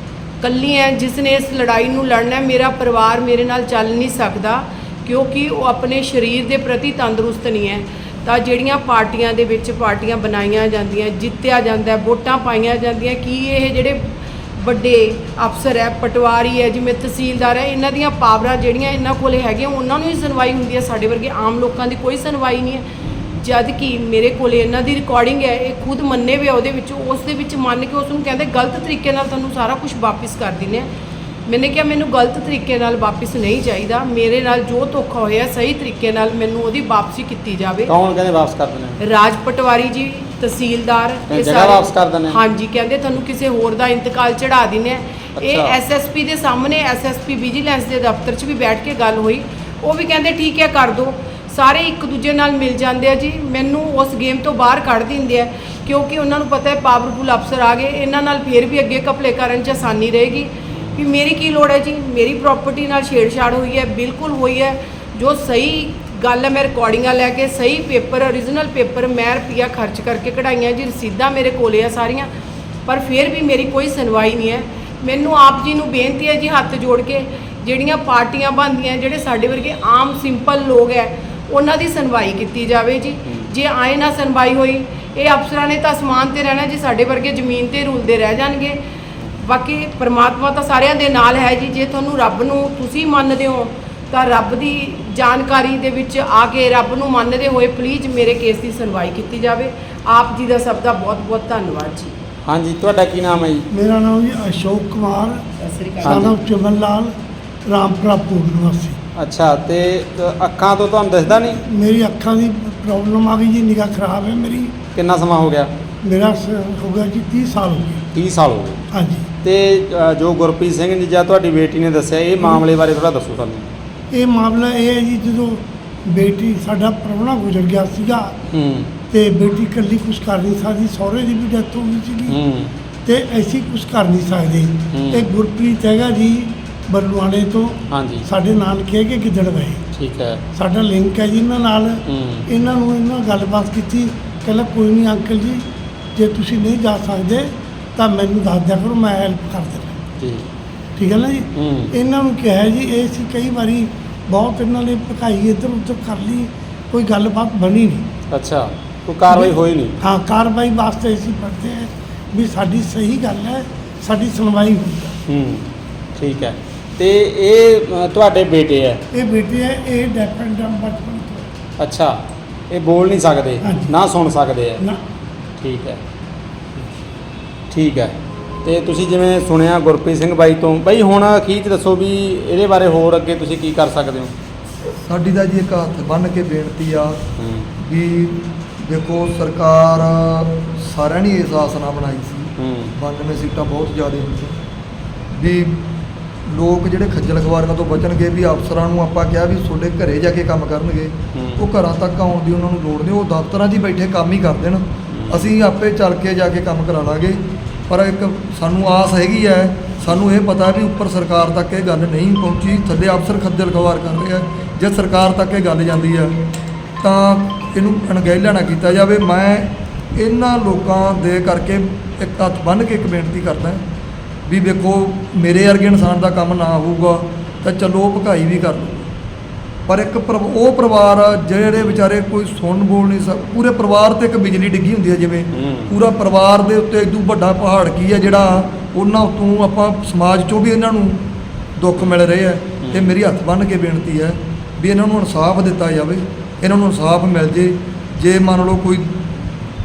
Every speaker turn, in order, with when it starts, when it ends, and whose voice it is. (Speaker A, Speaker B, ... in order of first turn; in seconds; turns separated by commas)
Speaker A: 0.4-22.9, Speaker A: 23.4-30.9, Speaker A: 31.5-37.9, Speaker B: 37.9-39.0, Speaker A: 39.0-72.3, Speaker B: 41.3-42.4, Speaker B: 45.4-45.7, Speaker B: 60.7-61.0, Speaker A: 72.8-88.8, Speaker A: 89.4-102.1, Speaker B: 102.4-103.7, Speaker C: 103.7-105.4, Speaker A: 105.6-106.3, Speaker B: 106.0-106.3, Speaker C: 106.0-107.1, Speaker C: 107.6-109.0, Speaker B: 109.2-111.6, Speaker C: 111.6-114.7, Speaker B: 114.9-115.7, Speaker C: 116.0-118.0, Speaker B: 118.1-118.8, Speaker C: 118.9-119.2, Speaker B: 119.4-123.7, Speaker C: 124.1-128.3, Speaker B: 128.5-128.9, Speaker C: 129.1-132.4, Speaker B: 132.3-132.7, Speaker C: 133.0-139.8, Speaker B: 134.9-135.3, Speaker B: 137.9-138.2, Speaker B: 139.9-140.4, Speaker C: 140.5-150.0, Speaker B: 142.1-142.4, Speaker B: 150.2-150.5, Speaker C: 150.9-158.1, Speaker B: 151.5-151.9, Speaker B: 158.3-159.9, Speaker C: 159.3-165.2, Speaker B: 165.3-165.6, Speaker B: 166.2-169.0, Speaker C: 169.1-171.4, Speaker B: 171.8-172.2, Speaker B: 172.7-174.8, Speaker C: 173.6-173.9, Speaker B: 175.6-176.0, Speaker B: 177.7-184.3, Speaker D: 185.0-187.2, Speaker B: 187.4-187.7, Speaker D: 187.8-194.6, Speaker B: 192.6-192.9, Speaker D: 195.3-195.9, Speaker D: 196.5-223.8, Speaker B: 201.3-201.6, Speaker B: 205.1-205.5, Speaker D: 224.5-229.1, Speaker D: 229.9-241.2, Speaker B: 231.8-232.0, Speaker B: 235.5-235.9, Speaker D: 241.8-249.2, Speaker B: 242.8-243.2